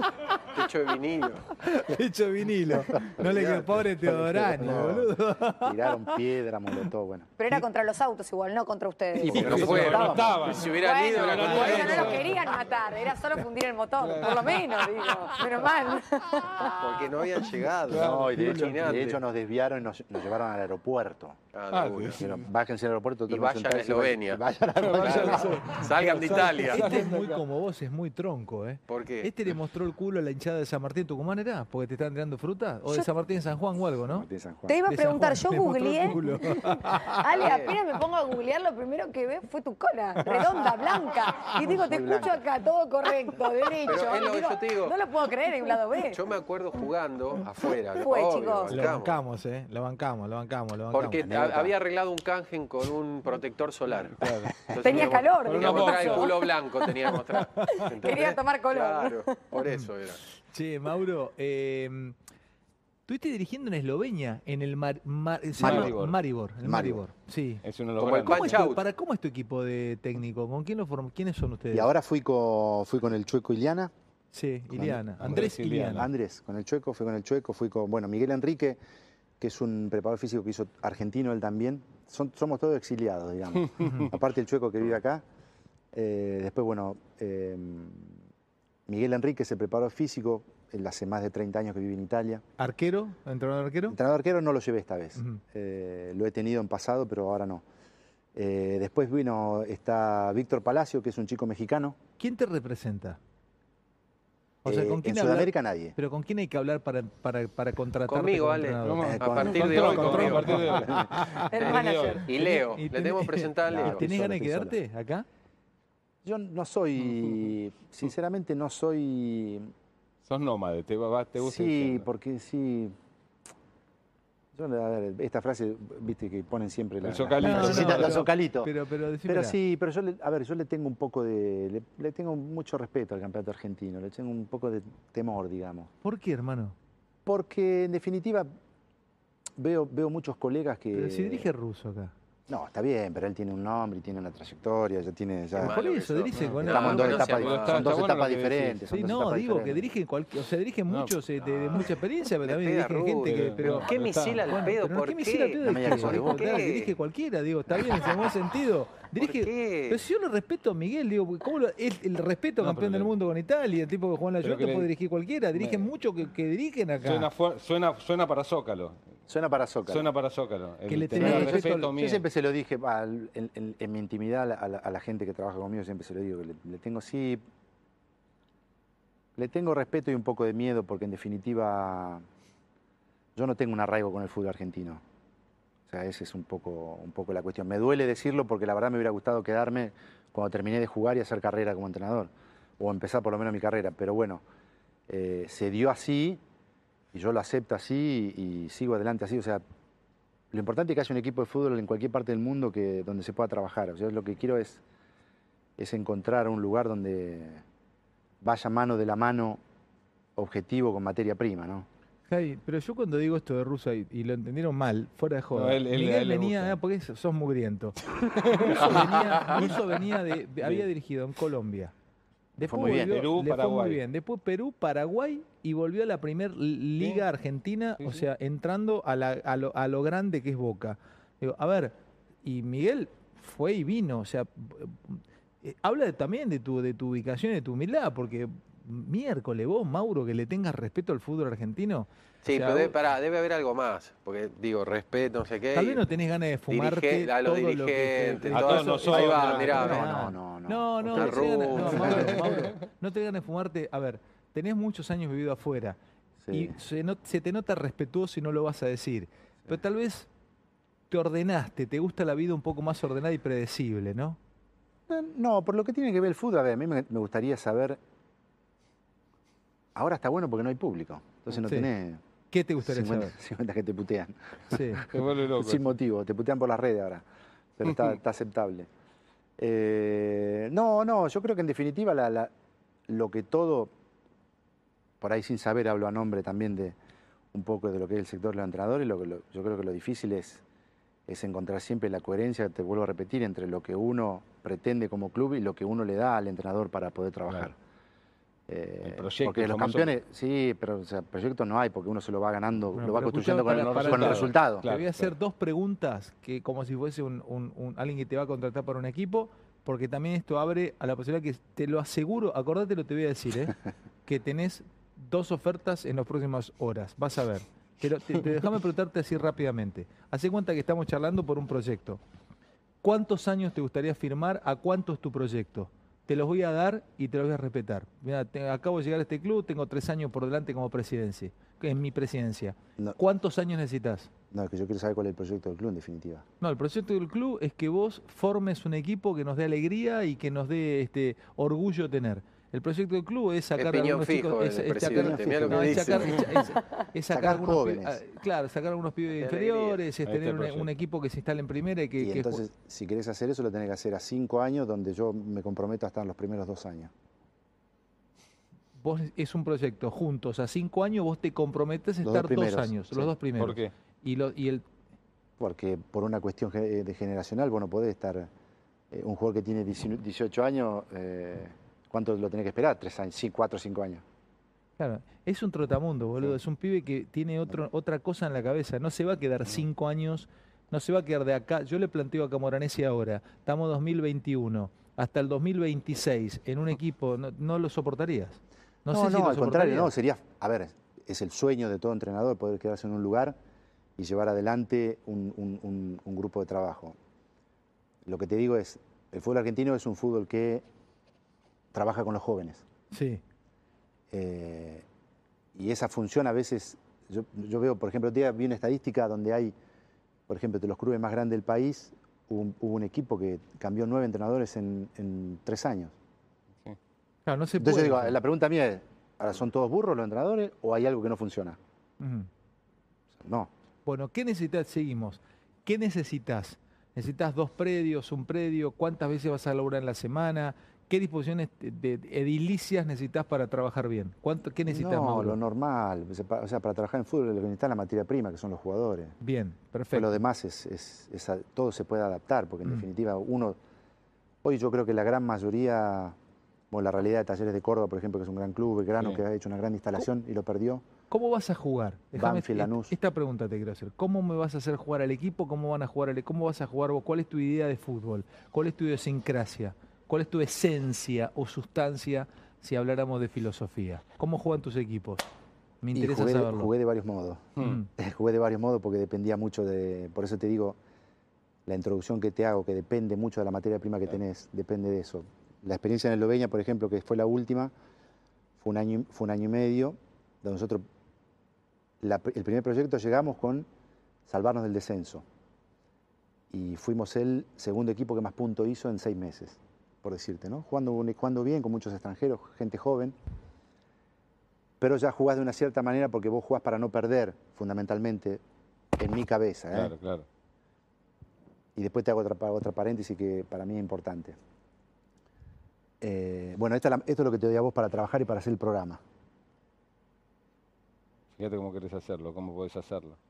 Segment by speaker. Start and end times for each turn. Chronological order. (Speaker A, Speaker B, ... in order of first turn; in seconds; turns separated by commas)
Speaker A: 0.3-1.5, Speaker B: 1.6-6.2, Speaker A: 3.2-3.8, Speaker C: 4.0-7.3, Speaker D: 7.4-9.9, Speaker C: 9.1-10.6, Speaker A: 9.2-12.3, Speaker E: 9.3-12.6, Speaker B: 9.5-9.8, Speaker D: 10.6-16.8, Speaker E: 14.0-15.4, Speaker A: 16.6-19.2, Speaker E: 17.9-18.3, Speaker C: 17.9-21.4, Speaker B: 18.0-19.0, Speaker A: 21.5-22.2, Speaker E: 21.7-22.4, Speaker C: 22.1-25.6, Speaker A: 23.3-24.4, Speaker E: 24.8-27.4, Speaker A: 24.9-26.9, Speaker B: 25.3-34.3, Speaker A: 28.9-29.3, Speaker C: 34.0-34.8, Speaker D: 34.7-46.2, Speaker B: 34.9-37.3, Speaker A: 37.3-37.8, Speaker C: 41.6-42.4, Speaker A: 43.8-45.0, Speaker A: 46.1-49.2, Speaker D: 47.9-48.9, Speaker B: 48.7-51.2, Speaker A: 50.9-60.2, Speaker C: 51.2-51.7, Speaker E: 54.2-56.4, Speaker D: 54.8-59.4, Speaker B: 57.5-57.8, Speaker B: 60.5-62.1, Speaker B: 63.1-71.9, Speaker E: 65.6-66.2, Speaker C: 65.6-66.0, Speaker C: 66.6-67.0, Speaker E: 67.6-68.7, Speaker A: 68.0-68.8, Speaker C: 71.7-73.9, Speaker B: 74.3-76.1, Speaker C: 74.7-78.8, Speaker E: 75.2-76.1, Speaker C: 79.4-85.2, Speaker B: 83.8-84.1, Speaker C: 85.9-88.2, Speaker C: 88.9-92.4, Speaker B: 92.6-94.0, Speaker C: 93.9-97.6, Speaker B: 95.2-95.4, Speaker C: 98.3-102.0, Speaker B: 102.2-103.2, Speaker C: 104.6-105.9, Speaker B: 104.6-111.5, Speaker A: 108.1-110.6, Speaker E: 108.8-112.2, Speaker C: 109.0-111.1, Speaker D: 111.5-112.2, Speaker A: 111.6-114.0, Speaker B: 112.1-115.2, Speaker C: 113.6-114.8, Speaker C: 116.2-119.7, Speaker E: 120.2-122.0, Speaker C: 121.4-122.9, Speaker C: 124.5-128.7, Speaker E: 127.0-128.2, Speaker B: 127.4-129.6, Speaker C: 129.2-135.9, Speaker B: 136.0-136.7, Speaker C: 137.2-138.5, Speaker C: 139.6-141.5, Speaker B: 140.9-142.1, Speaker C: 142.5-145.8, Speaker A: 145.5-147.9, Speaker B: 145.6-147.7, Speaker E: 146.3-148.8, Speaker C: 146.6-149.9, Speaker B: 148.9-167.3, Speaker E: 150.9-151.2, Speaker A: 152.4-156.9, Speaker E: 153.3-154.5, Speaker C: 155.6-156.6, Speaker A: 159.2-160.0, Speaker E: 162.6-163.1, Speaker E: 164.4-164.9, Speaker E: 165.5-165.9, Speaker E: 167.0-169.0, Speaker C: 169.3-170.1, Speaker E: 169.8-172.2, Speaker B: 170.9-171.9, Speaker C: 171.1-177.4, Speaker C: 179.3-182.2, Speaker C: 183.3-185.0, Speaker C: 185.9-194.4, Speaker C: 195.1-196.4, Speaker C: 197.1-199.6, Speaker C: 200.5-204.8, Speaker C: 205.8-207.6, Speaker C: 208.4-209.6, Speaker C: 210.3-211.9, Speaker B: 212.3-221.9, Speaker E: 215.5-216.8, Speaker E: 218.2-220.0, Speaker B: 222.6-242.9, Speaker C: 222.6-223.2, Speaker E: 223.0-224.0, Speaker E: 228.0-228.2, Speaker A: 242.4-246.0, Speaker B: 245.7-256.0, Speaker A: 246.7-250.0, Speaker E: 248.5-249.8, Speaker C: 249.1-252.7, Speaker A: 251.1-252.6, Speaker C: 256.4-256.8, Speaker B: 256.5-260.3, Speaker B: 261.1-264.4, Speaker C: 265.1-268.0, Speaker C: 269.9-272.2, Speaker B: 271.5-271.9, Speaker B: 272.5-273.3, Speaker C: 272.8-277.2, Speaker B: 274.7-275.0, Speaker E: 275.1-275.9, Speaker C: 277.8-278.9, Speaker C: 279.6-282.5, Speaker C: 283.1-283.9, Speaker C: 285.2-286.9, Speaker C: 287.5-290.6, Speaker C: 291.3-297.8, Speaker C: 298.7-304.8, Speaker E: 299.0-300.1, Speaker B: 303.0-322.2, Speaker E: 303.6-305.3, Speaker B: 323.0-334.3, Speaker C: 334.5-336.4, Speaker B: 336.6-352.6, Speaker A: 343.8-346.7, Speaker C: 345.0-346.3, Speaker C: 347.3-348.2, Speaker A: 349.4-350.0, Speaker E: 350.2-350.9, Speaker C: 352.2-357.1, Speaker B: 359.0-364.8, Speaker C: 362.2-363.3, Speaker E: 363.6-363.9, Speaker C: 365.6-368.5, Speaker C: 369.1-374.2, Speaker B: 375.0-390.1, Speaker C: 389.1-393.6, Speaker C: 394.2-397.1, Speaker C: 398.2-400.8, Speaker C: 401.9-402.8, Speaker B: 403.1-403.4, Speaker C: 404.3-405.0, Speaker C: 405.7-409.7, Speaker C: 410.5-416.1, Speaker B: 417.4-418.4, Speaker C: 417.8-421.8, Speaker B: 422.2-422.5, Speaker C: 423.4-423.7, Speaker B: 424.1-435.6, Speaker C: 434.9-439.4, Speaker B: 439.4-440.4, Speaker C: 440.1-443.8, Speaker C: 444.6-446.4, Speaker C: 446.9-451.0, Speaker B: 451.3-465.4, Speaker C: 452.3-453.1, Speaker B: 466.0-466.9, Speaker C: 466.1-471.0, Speaker B: 467.8-468.1, Speaker C: 471.9-477.9, Speaker C: 478.8-481.0, Speaker C: 482.2-483.9, Speaker C: 484.4-485.4, Speaker C: 486.7-493.4, Speaker C: 495.0-498.6, Speaker C: 499.1-500.1, Speaker E: 499.9-500.4, Speaker C: 501.9-504.6, Speaker C: 506.2-509.2, Speaker E: 511.6-513.4